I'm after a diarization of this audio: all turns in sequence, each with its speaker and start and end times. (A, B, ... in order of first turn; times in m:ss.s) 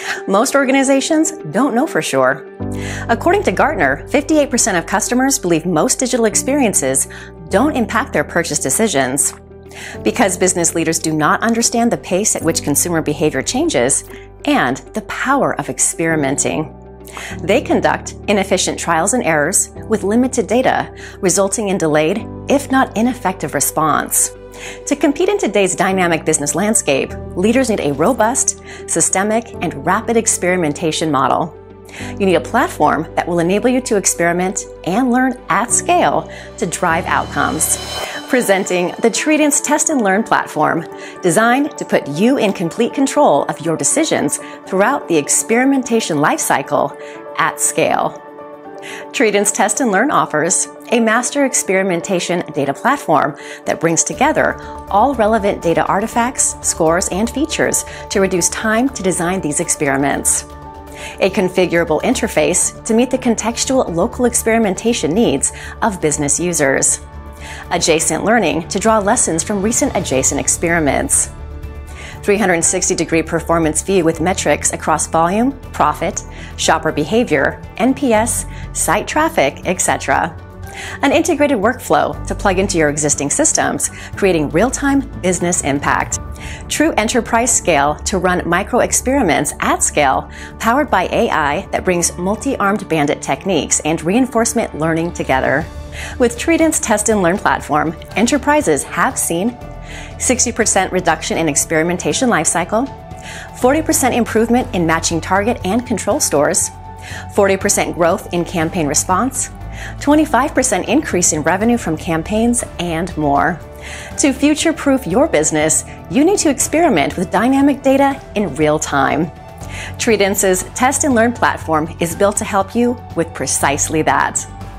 0:00.3-0:02.5 A
0:03.1-0:09.3 A
0:10.0-0:16.7 A
0:17.4-0:24.3 A
0:24.8-0:31.6 A
0:32.2-0:48.2 A
0:49.1-1:00.4 A
1:01.2-1:07.0 A
1:07.7-1:11.3 A
1:12.2-1:20.4 A
1:21.0-1:39.6 A
1:40.2-1:42.9 A
1:43.5-1:46.7 A
1:47.3-1:53.6 A
1:54.2-1:59.3 A
2:00.0-2:04.5 A